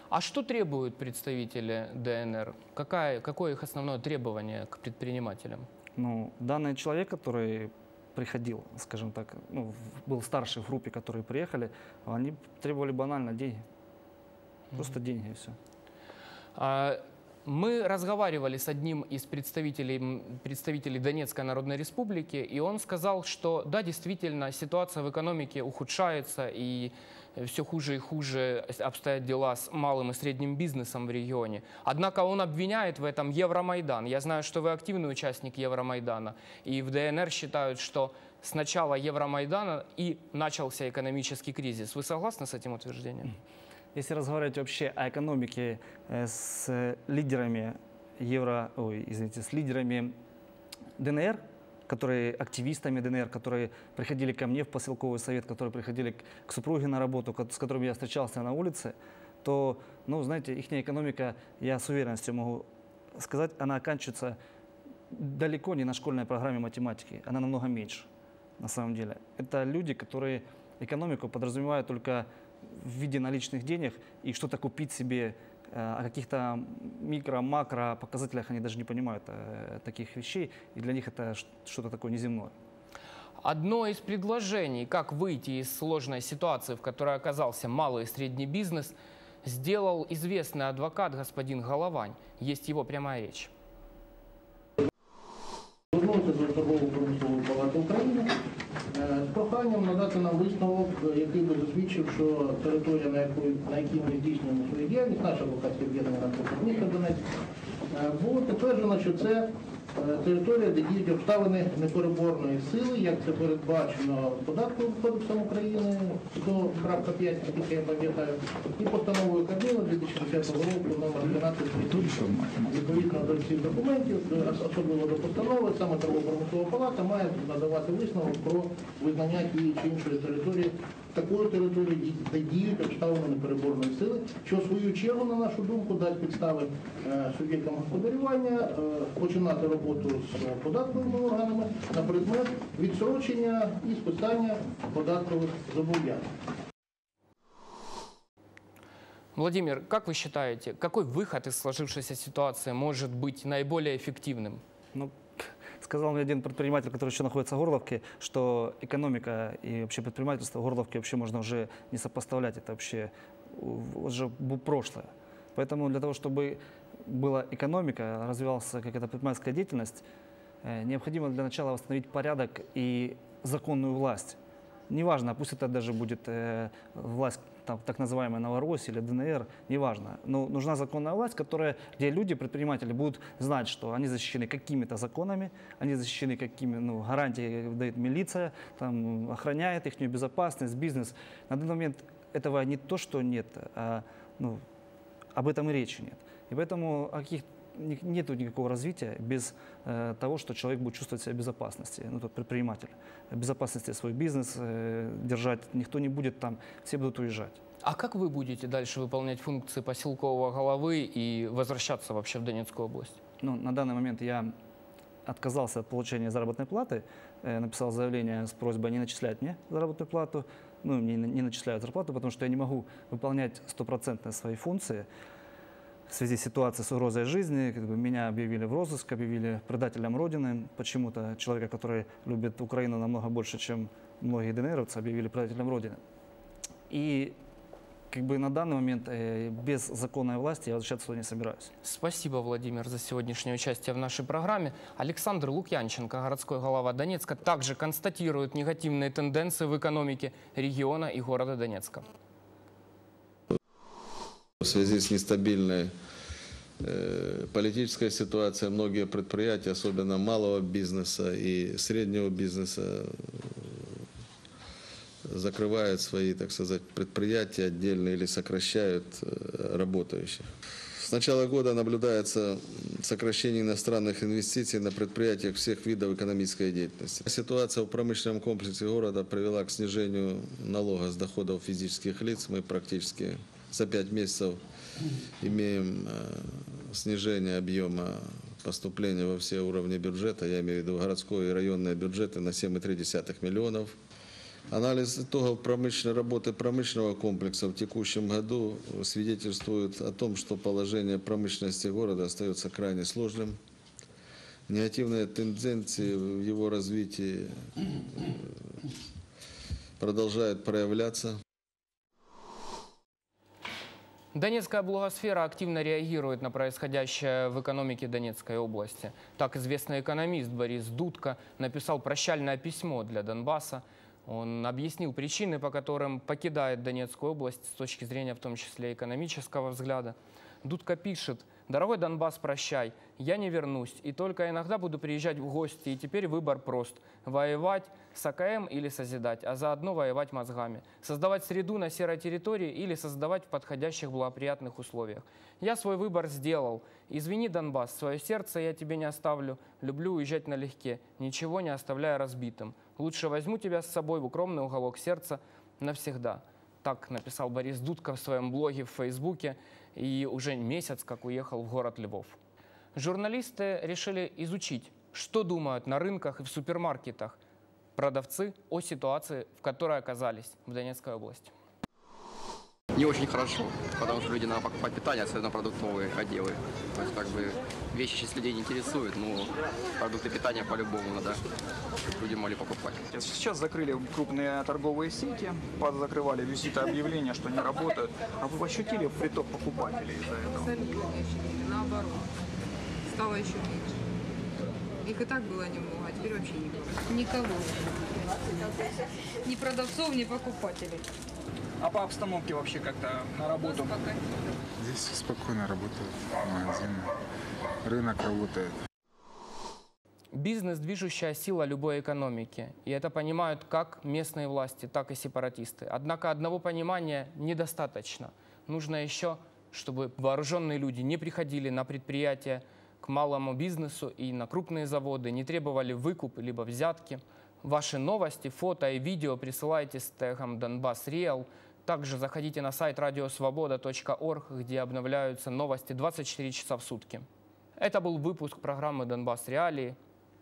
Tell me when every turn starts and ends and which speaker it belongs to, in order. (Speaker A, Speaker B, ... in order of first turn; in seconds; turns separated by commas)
Speaker A: 0.1-5.7, Speaker B: 6.0-13.6, Speaker B: 14.7-15.6, Speaker A: 16.5-43.3, Speaker B: 43.9-50.1, Speaker B: 51.0-64.4, Speaker B: 65.1-68.1, Speaker B: 68.6-82.5, Speaker A: 83.4-93.5, Speaker C: 95.9-98.3, Speaker C: 98.9-107.2, Speaker C: 107.9-146.2, Speaker A: 149.3-154.6, Speaker B: 154.9-170.0, Speaker B: 170.6-174.4, Speaker B: 174.9-194.6, Speaker B: 195.3-207.6, Speaker A: 207.8-213.2, Speaker B: 213.4-214.5, Speaker B: 215.2-225.1, Speaker B: 226.1-236.0, Speaker B: 236.9-237.3, Speaker B: 238.1-241.7, Speaker A: 241.8-252.1, Speaker D: 254.6-255.9, Speaker D: 256.8-264.0, Speaker D: 265.3-284.6, Speaker D: 285.4-293.9, Speaker D: 294.7-303.6, Speaker D: 304.7-307.5, Speaker D: 308.2-308.6, Speaker D: 310.0-311.4, Speaker A: 314.3-362.4, Speaker A: 362.9-367.4, Speaker A: 367.9-371.5, Speaker E: 372.9-381.4, Speaker E: 382.1-383.1, Speaker F: 383.1-390.7, Speaker G: 390.4-392.3, Speaker G: 393.1-393.9, Speaker G: 395.0-397.8, Speaker G: 399.4-401.1, Speaker F: 401.8-403.9, Speaker G: 403.6-404.2, Speaker H: 404.8-407.1, Speaker H: 407.9-408.7, Speaker A: 410.3-437.2, Speaker A: 437.8-439.9